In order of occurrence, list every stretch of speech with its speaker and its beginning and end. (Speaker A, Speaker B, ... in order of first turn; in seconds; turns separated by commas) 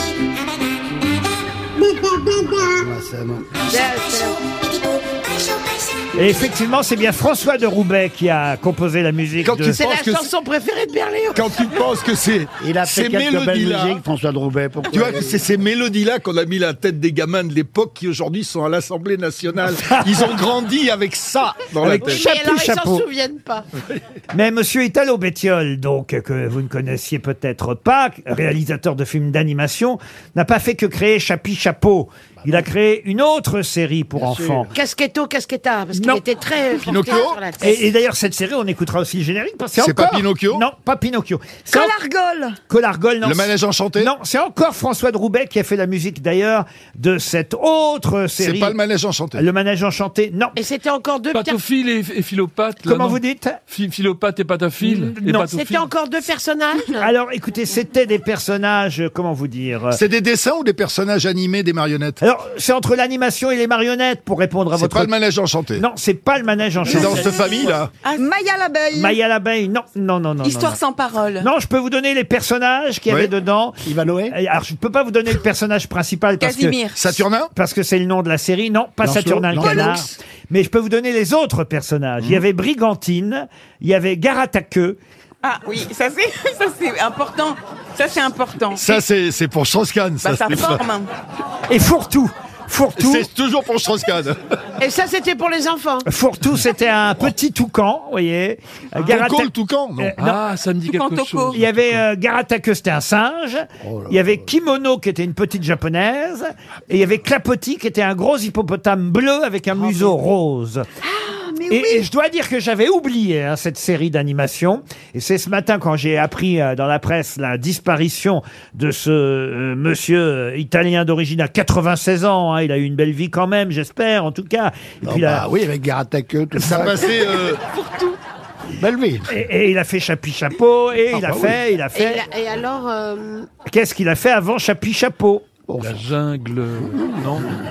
Speaker A: 1.8-2.6, Speaker B: 2.6-3.6, Speaker A: 3.7-4.4, Speaker C: 6.2-9.8, Speaker D: 9.4-10.2, Speaker A: 9.6-11.8, Speaker D: 11.3-14.0, Speaker B: 12.6-15.4, Speaker D: 14.9-22.2, Speaker C: 19.8-20.1, Speaker C: 21.8-23.0, Speaker A: 22.0-23.6, Speaker C: 24.3-34.7, Speaker B: 34.1-34.7, Speaker A: 34.7-37.9, Speaker C: 35.9-36.2, Speaker D: 36.8-37.4, Speaker C: 37.6-41.9, Speaker D: 39.8-40.6, Speaker E: 41.7-42.6, Speaker C: 42.7-48.8, Speaker D: 43.2-44.1, Speaker D: 48.4-49.4, Speaker C: 49.3-50.6, Speaker A: 50.5-51.6, Speaker F: 51.3-55.9, Speaker C: 52.8-53.6, Speaker C: 54.8-55.5, Speaker A: 55.4-57.1, Speaker C: 57.0-60.0, Speaker D: 59.9-62.2, Speaker C: 62.2-65.1, Speaker D: 64.7-65.8, Speaker C: 65.8-67.7, Speaker D: 66.9-67.9, Speaker E: 68.2-69.2, Speaker C: 68.9-70.8, Speaker G: 70.4-71.5, Speaker C: 71.4-73.8, Speaker B: 73.8-74.3, Speaker C: 74.3-85.0, Speaker G: 76.4-77.0, Speaker D: 76.9-77.5, Speaker B: 79.0-80.1, Speaker E: 79.6-80.0, Speaker G: 85.4-89.0, Speaker D: 88.7-90.8, Speaker G: 90.2-91.1, Speaker C: 91.7-93.3, Speaker D: 93.0-94.4, Speaker A: 94.8-96.1, Speaker C: 96.0-100.3, Speaker D: 99.0-100.1, Speaker F: 100.2-102.0, Speaker G: 100.9-101.5, Speaker C: 101.5-110.8, Speaker B: 103.8-104.5, Speaker B: 109.8-110.1, Speaker E: 111.1-112.1, Speaker C: 111.7-125.4, Speaker B: 125.0-127.2, Speaker D: 126.6-127.6, Speaker G: 127.6-128.2, Speaker B: 128.8-129.3, Speaker C: 129.3-132.2, Speaker B: 131.1-131.5, Speaker A: 131.9-133.5, Speaker C: 133.7-135.4, Speaker B: 135.7-136.1, Speaker F: 135.8-137.5, Speaker B: 136.9-137.5